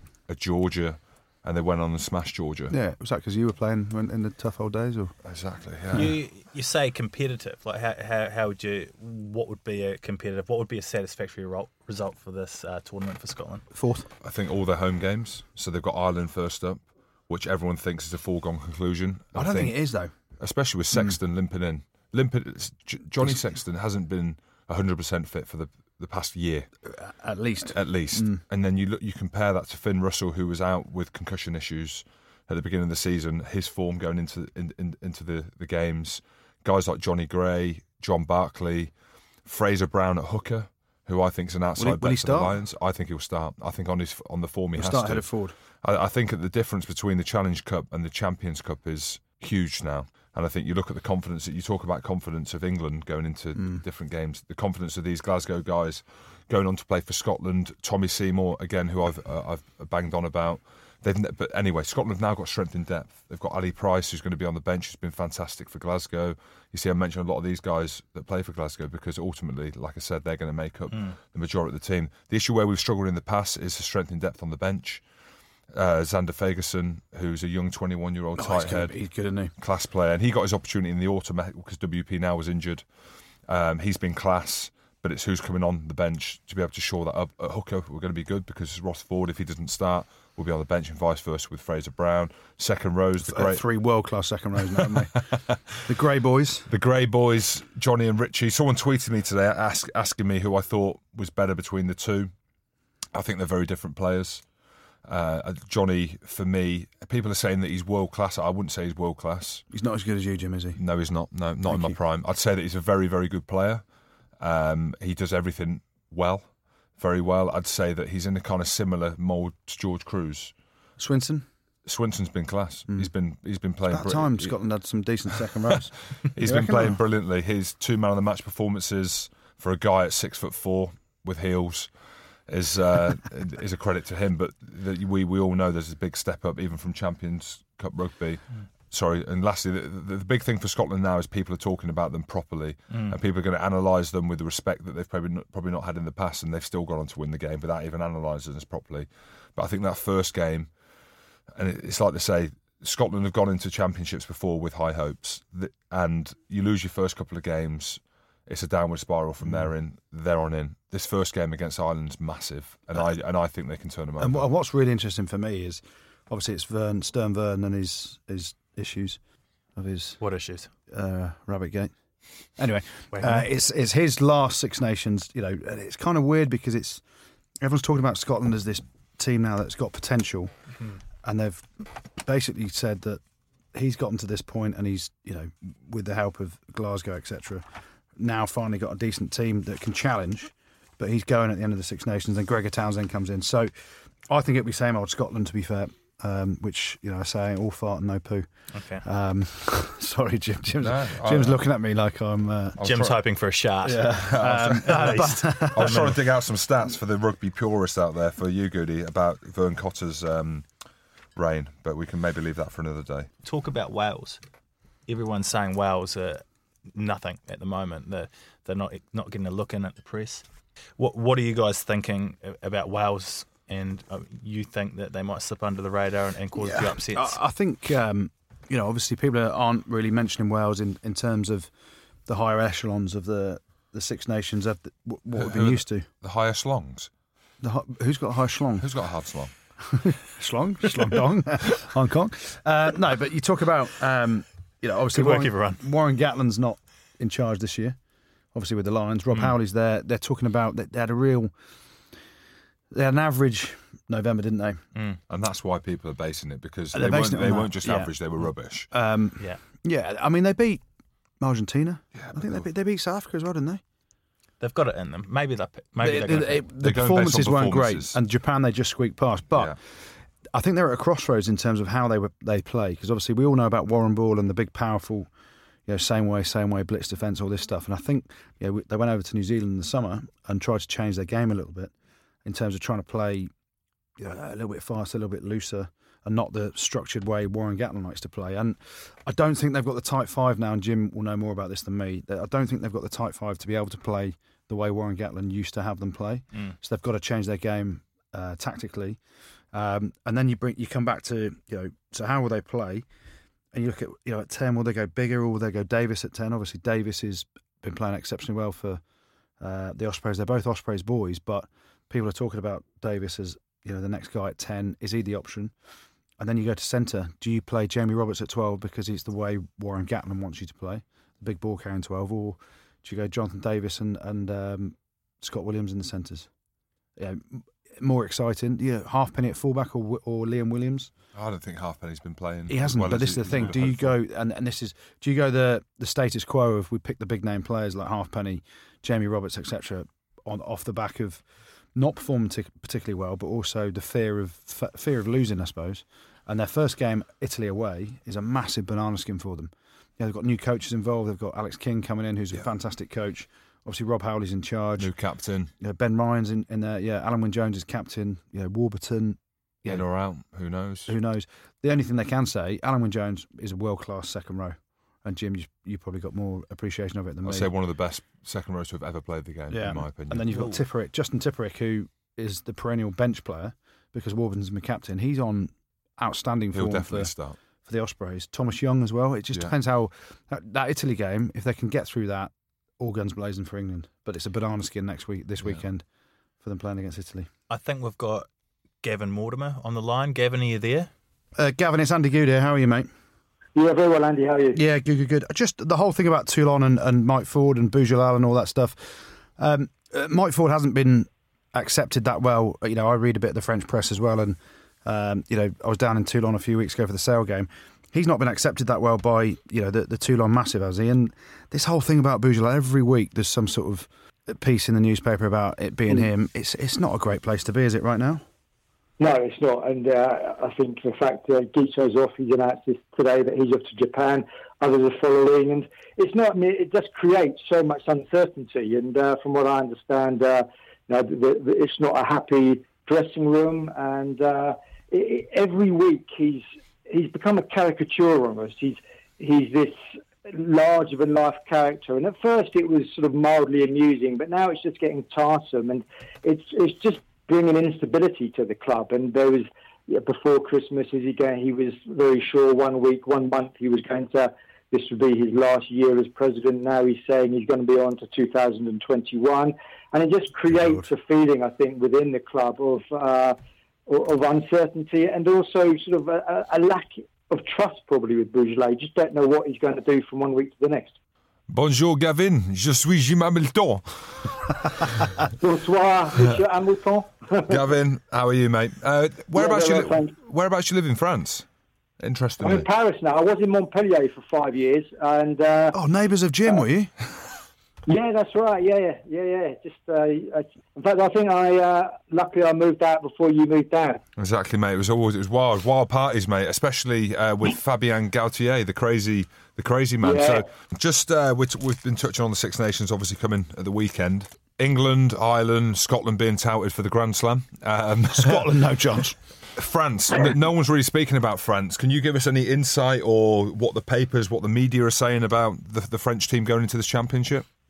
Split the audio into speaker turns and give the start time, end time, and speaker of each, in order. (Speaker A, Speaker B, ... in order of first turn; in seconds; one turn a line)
Speaker A: 0.3-2.7
Speaker B: 2.7-5.1
Speaker A: 5.2-6.1
Speaker C: 5.9-13.6
Speaker B: 13.7-14.1
Speaker A: 14.2-19.8
Speaker B: 19.3-20.1
Speaker A: 20.4-26.7
Speaker B: 26.9-28.4
Speaker A: 27.6-38.9
Speaker A: 39.4-45.3
Speaker B: 41.8-42.6
Speaker B: 44.8-45.5
Speaker A: 45.8-75.0
Speaker B: 53.5-53.8
Speaker A: 75.7-78.9
Speaker B: 78.4-79.5
Speaker A: 79.6-82.8
Speaker A: 83.5-93.6
Speaker B: 93.2-95.2
Speaker A: 94.8-95.6
Speaker B: 95.8-96.7
Speaker A: 96.7-102.3
Speaker A: 103.1-104.4
Speaker A: 105.0-109.6
Speaker B: 109.7-110.8
Speaker A: 110.8-113.8
Speaker B: 111.7-112.0
Speaker A: 114.4-120.5
Speaker B: 121.0-121.5
Speaker A: 121.8-124.5
Speaker B: 123.9-127.0
Speaker A: 126.3-131.9
Speaker A: 132.5-150.7
Speaker A: 151.5-164.5
Speaker B: 164.2-169.2
Speaker B: 169.8-170.2
Speaker C: 170.2-170.7
Speaker B: 170.9-171.9
Speaker B: 172.6-177.0
Speaker C: 173.1-173.5
Speaker B: 177.6-180.5
Speaker B: 181.2-181.7
Speaker B: 182.2-183.2
Speaker B: 183.7-187.6
Speaker B: 188.2-193.7
Speaker B: 194.3-198.4
Speaker C: 198.7-199.0
Speaker B: 199.0-202.8
Speaker A: 200.8-201.6
Speaker A: 202.8-203.2
Speaker C: 202.8-206.2
Speaker B: 203.8-206.1
Speaker A: 204.1-210.7
Speaker A: 211.3-213.3
Speaker C: 213.4-214.4
Speaker C: 215.1-220.4
Speaker C: 221.0-227.4
Speaker B: 226.6-231.7
Speaker B: 232.3-236.1
Speaker A: 235.3-237.1
Speaker B: 237.6-238.9
Speaker A: 238.8-239.5
Speaker B: 239.9-248.0
Speaker C: 245.1-245.8
Speaker B: 248.5-251.5
Speaker B: 252.9-254.8
Speaker C: 254.9-255.2
Speaker A: 255.3-258.9
Speaker B: 256.9-258.1
Speaker B: 258.9-260.8
Speaker B: 261.4-263.8
Speaker A: 262.1-262.6
Speaker C: 264.6-266.6
Speaker B: 266.0-269.8
Speaker A: 266.8-268.2
Speaker B: 270.5-275.3
Speaker B: 275.9-281.9
Speaker B: 282.4-283.5
Speaker B: 284.2-299.2
Speaker B: 299.7-303.0
Speaker B: 303.7-309.0
Speaker B: 309.6-315.7
Speaker B: 316.4-326.5
Speaker B: 327.2-331.1
Speaker A: 331.3-334.2
Speaker B: 332.7-341.4
Speaker B: 341.9-355.1
Speaker A: 355.0-355.7
Speaker B: 355.8-360.0
Speaker A: 359.9-361.1
Speaker B: 361.1-367.7
Speaker A: 367.4-370.5
Speaker B: 369.7-377.3
Speaker A: 376.7-377.6
Speaker B: 377.8-386.0
Speaker B: 386.6-387.5
Speaker C: 387.7-388.5
Speaker C: 389.0-391.1
Speaker B: 391.6-393.1
Speaker D: 393.7-394.8
Speaker B: 394.7-418.4
Speaker D: 419.2-463.6
Speaker B: 460.7-461.1
Speaker D: 464.1-471.1
Speaker A: 471.7-474.7
Speaker D: 475.6-477.8
Speaker A: 477.7-481.6
Speaker D: 479.5-480.3
Speaker A: 482.2-482.9
Speaker D: 482.6-486.0
Speaker B: 485.9-487.1
Speaker D: 488.1-494.2
Speaker A: 494.4-508.8
Speaker D: 500.2-500.7
Speaker B: 508.3-509.4
Speaker A: 509.7-517.6